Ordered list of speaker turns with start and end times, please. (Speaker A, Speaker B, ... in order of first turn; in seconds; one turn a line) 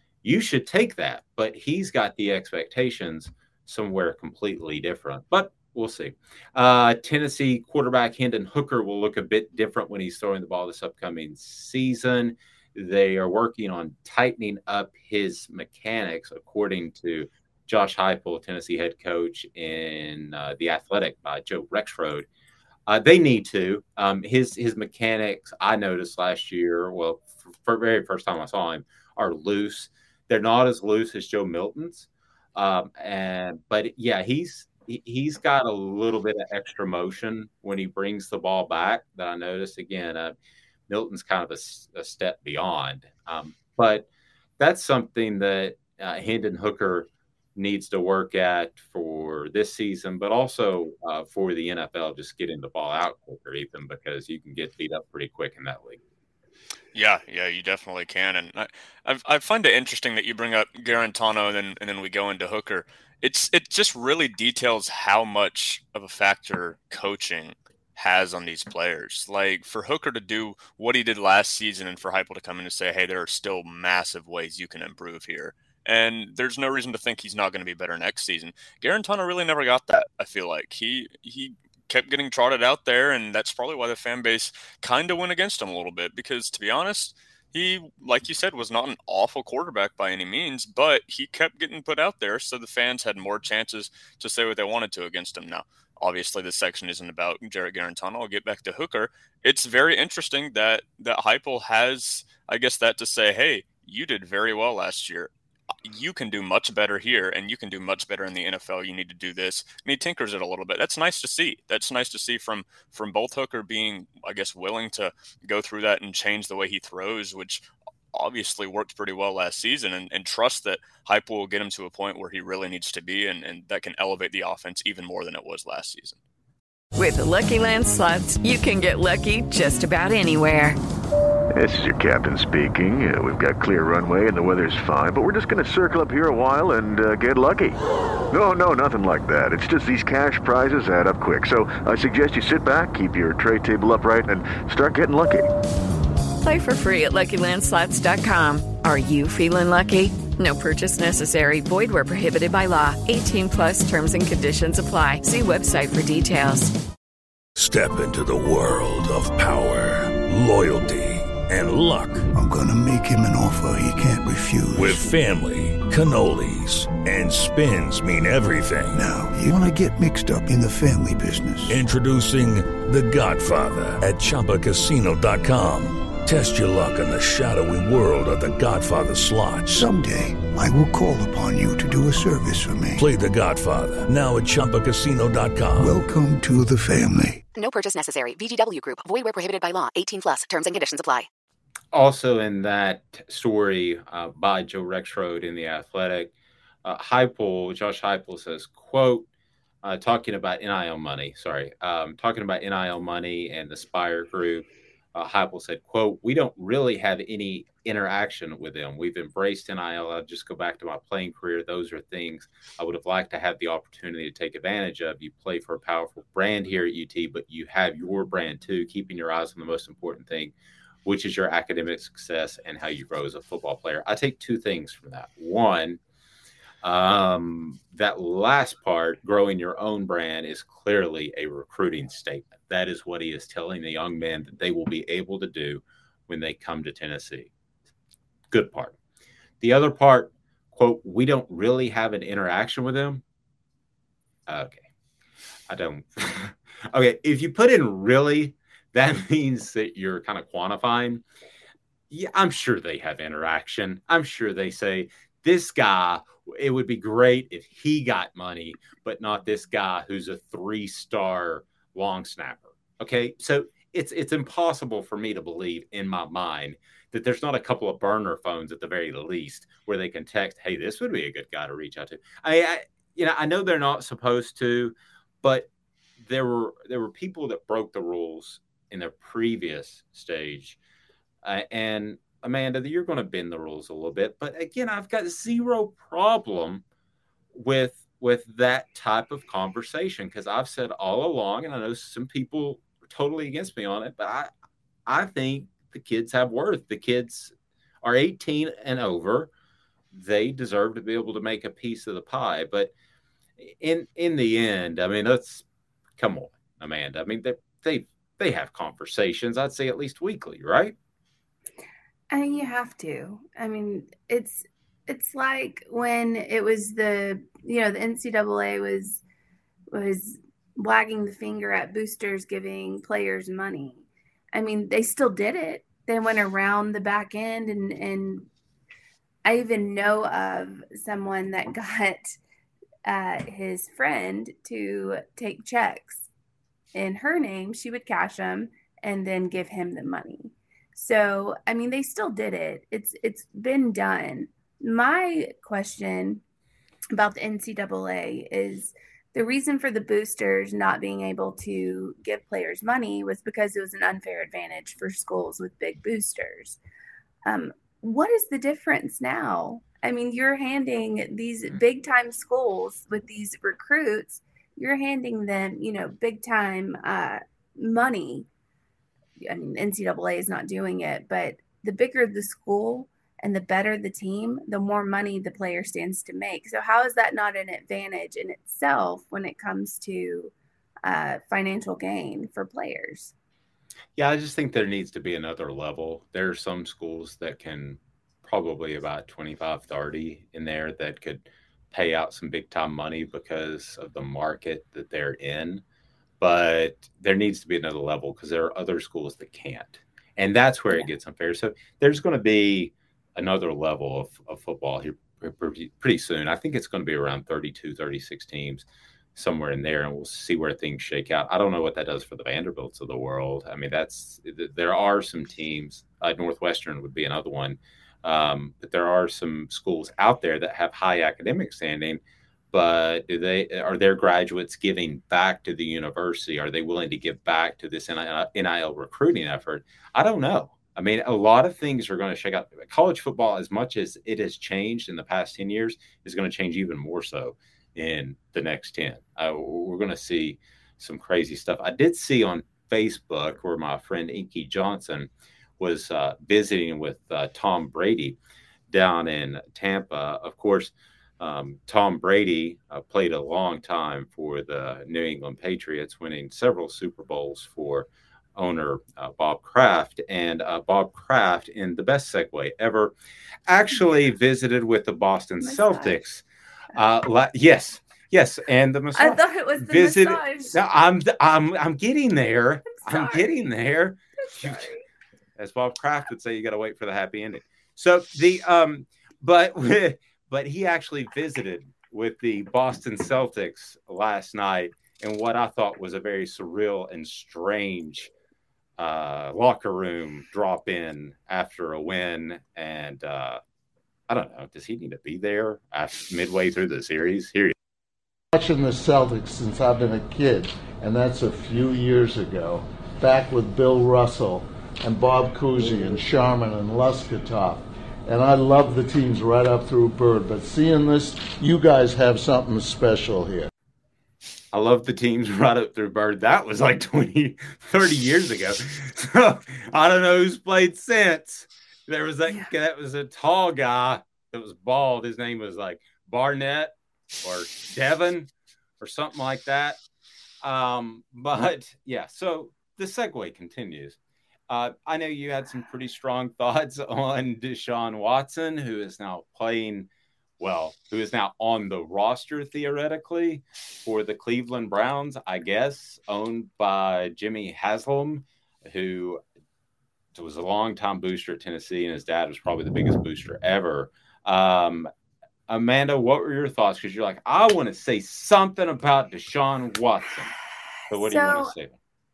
Speaker A: 0.2-22.3
Speaker A: 22.9-40.4
Speaker A: 40.9-44.1
Speaker A: 44.6-56.0
Speaker B: 56.9-105.3
Speaker B: 105.8-126.2
Speaker C: 126.9-130.8
Speaker D: 131.6-137.8
Speaker D: 138.3-145.5
Speaker C: 146.4-156.7
Speaker E: 157.6-162.3
Speaker F: 162.3-165.0
Speaker E: 164.7-169.0
Speaker F: 168.9-171.8
Speaker E: 171.7-179.8
Speaker F: 179.7-183.0
Speaker E: 183.0-185.9
Speaker F: 185.8-187.4
Speaker G: 187.5-191.3
Speaker A: 191.9-196.3
Speaker A: 196.8-199.3
Speaker A: 199.8-220.5
Speaker A: 221.0-226.0
Speaker A: 226.8-237.5
Speaker A: 238.5-238.9
Speaker A: 239.6-243.2
Speaker A: 244.5-244.9
Speaker A: 245.7-251.2
Speaker A: 252.1-275.7
Speaker A: 276.2-280.8
Speaker A: 281.4-286.8
Speaker A: 287.5-294.5
Speaker A: 295.1-299.5
Speaker A: 300.1-302.9
Speaker A: 303.6-305.6
Speaker A: 306.2-310.9
Speaker H: 312.3-319.2
Speaker H: 319.9-328.5
Speaker H: 329.4-332.4
Speaker H: 333.1-336.3
Speaker H: 336.9-346.4
Speaker H: 347.1-356.8
Speaker H: 357.4-368.5
Speaker H: 369.4-380.5
Speaker H: 381.0-383.3
Speaker A: 384.1-395.8
Speaker A: 396.4-422.2
Speaker A: 422.7-448.4
Speaker A: 448.9-463.1
Speaker A: 463.7-474.9
Speaker H: 465.6-466.2
Speaker H: 469.1-470.8
Speaker H: 472.9-473.5
Speaker H: 474.4-475.0
Speaker A: 475.6-488.3
Speaker A: 489.0-493.6
Speaker A: 494.3-497.7
Speaker I: 498.5-513.7
Speaker A: 514.7-530.0
Speaker A: 530.6-534.2
Speaker A: 534.7-549.4
Speaker A: 550.3-555.1
Speaker A: 555.7-560.5
Speaker H: 561.1-561.7
Speaker A: 561.1-562.0